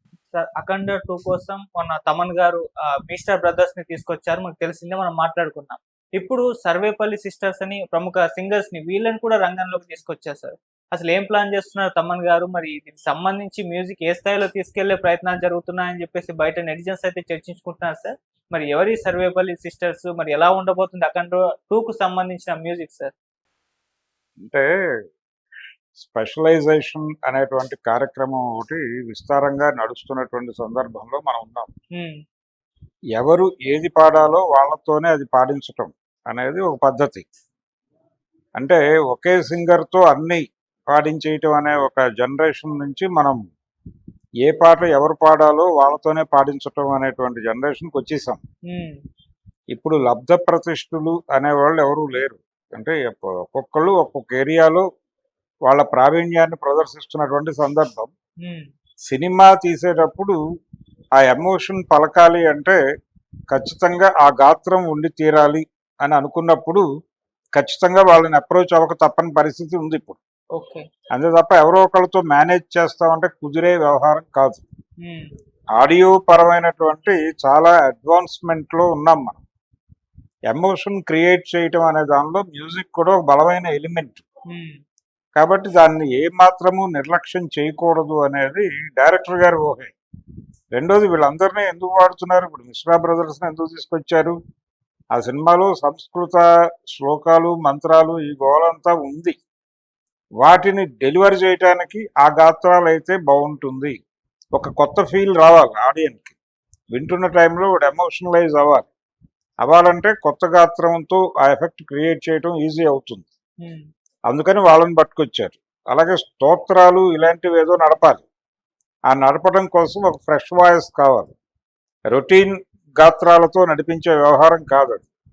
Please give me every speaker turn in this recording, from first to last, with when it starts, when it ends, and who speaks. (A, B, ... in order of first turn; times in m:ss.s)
0:00.3-0:23.1 A
0:24.4-0:24.6 B
0:26.0-0:31.7 B
0:33.2-0:37.2 B
0:38.6-0:43.4 B
0:44.4-0:48.4 B
0:48.7-0:49.0 A
0:49.7-0:54.8 B
0:55.7-0:58.1 B
0:58.4-0:58.7 A
0:59.1-1:00.4 B
1:01.2-1:02.8 B
1:03.5-1:06.8 B
1:07.6-1:10.2 B
1:10.6-1:10.8 A
1:11.1-1:14.6 B
1:15.0-1:15.3 A
1:15.8-1:19.4 B
1:20.5-1:24.2 B
1:24.5-1:24.8 A
1:25.4-1:29.9 B
1:30.7-1:34.4 B
1:35.1-1:39.4 B
1:40.4-1:44.0 B
1:44.5-1:46.4 B
1:46.9-1:48.9 B
1:49.6-1:53.3 B
1:53.6-1:53.9 A
1:54.3-1:58.2 B
1:59.1-2:01.3 B
2:02.1-2:05.1 B